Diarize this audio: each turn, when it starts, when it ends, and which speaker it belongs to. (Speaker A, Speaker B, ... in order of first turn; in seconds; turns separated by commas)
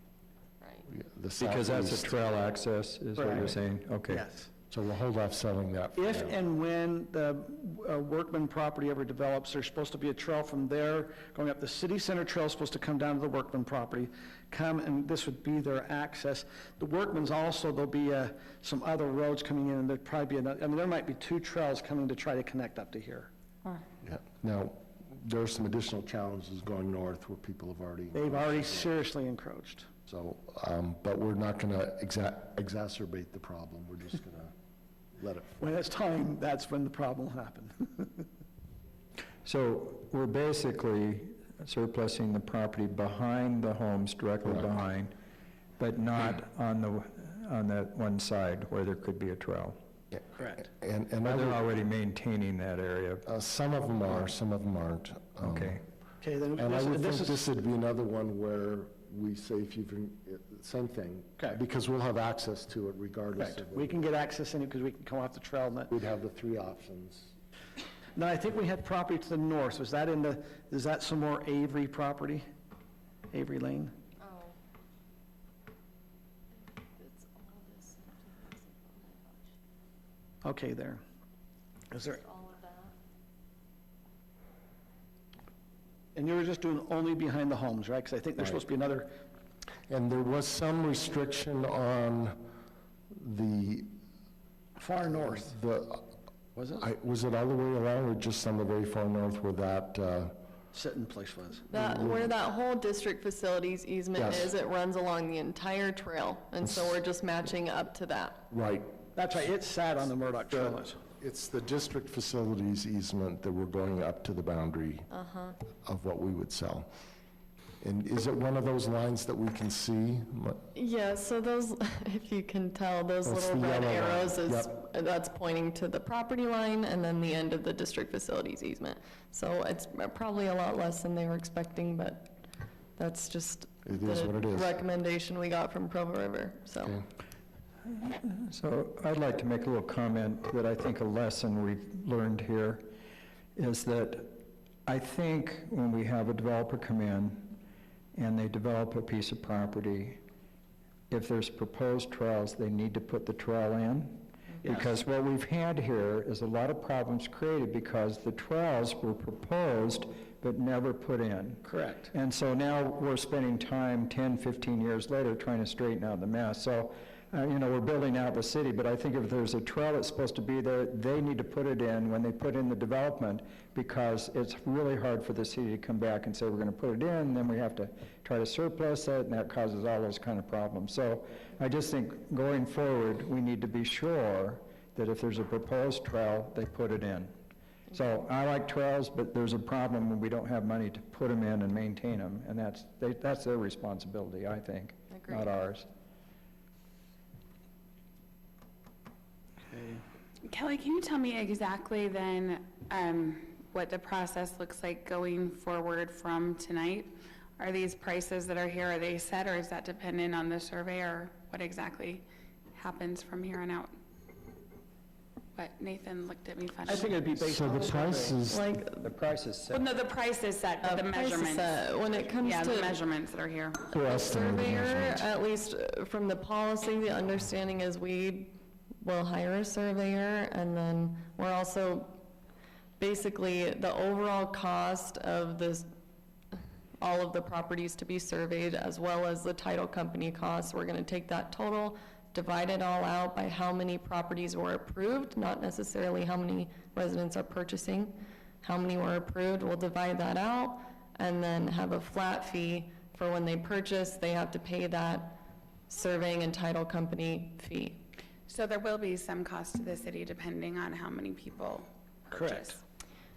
Speaker A: 0.9-2.2, Speaker B: 1.4-4.2, Speaker C: 3.2-3.5, Speaker A: 3.2-3.5, Speaker C: 4.1-4.5, Speaker A: 4.7-6.4, Speaker C: 6.0-23.3, Speaker A: 24.0-29.0, Speaker C: 28.1-29.9, Speaker A: 30.1-34.5, Speaker A: 35.2-35.6, Speaker C: 35.6-38.3, Speaker B: 39.5-45.1, Speaker A: 44.4-44.7, Speaker B: 45.8-49.8, Speaker A: 50.1-51.7, Speaker C: 50.4-50.7, Speaker B: 51.2-53.2, Speaker A: 53.3-55.8, Speaker B: 55.4-55.8, Speaker C: 56.2-57.5, Speaker A: 56.6-64.0, Speaker C: 63.4-65.9, Speaker A: 65.9-67.3, Speaker C: 68.2-72.5, Speaker C: 73.3-73.9, Speaker D: 74.2-74.6, Speaker D: 76.6-79.5, Speaker C: 80.4-81.0, Speaker C: 81.9-82.2, Speaker D: 82.1-82.9, Speaker C: 86.2-89.1, Speaker A: 89.9-92.4, Speaker A: 93.1-94.0, Speaker C: 94.8-95.5, Speaker A: 95.3-96.1, Speaker C: 96.6-96.9, Speaker A: 96.8-100.3, Speaker C: 100.7-101.7, Speaker D: 101.7-108.5, Speaker A: 101.7-102.3, Speaker A: 104.2-104.5, Speaker A: 106.6-107.0, Speaker A: 108.5-109.0, Speaker C: 109.2-111.0, Speaker A: 110.5-115.1, Speaker D: 115.1-115.6, Speaker A: 115.8-116.9, Speaker A: 117.8-120.6, Speaker D: 120.7-137.0, Speaker A: 123.2-124.7, Speaker A: 133.9-134.8, Speaker B: 138.0-142.9, Speaker B: 143.6-147.6, Speaker B: 148.1-150.2, Speaker B: 151.1-187.3, Speaker C: 154.6-155.0, Speaker C: 161.6-162.1, Speaker B: 187.9-195.9, Speaker D: 195.1-195.5, Speaker C: 199.7-200.0, Speaker E: 200.5-213.9, Speaker E: 215.6-217.1, Speaker C: 216.9-218.4, Speaker A: 217.0-218.7, Speaker D: 218.5-219.1, Speaker B: 219.0-219.9, Speaker E: 219.7-223.9, Speaker D: 220.8-223.0, Speaker A: 223.9-225.3, Speaker D: 223.9-232.2, Speaker D: 233.0-235.9, Speaker D: 236.5-258.0, Speaker E: 258.5-262.8, Speaker C: 262.3-262.8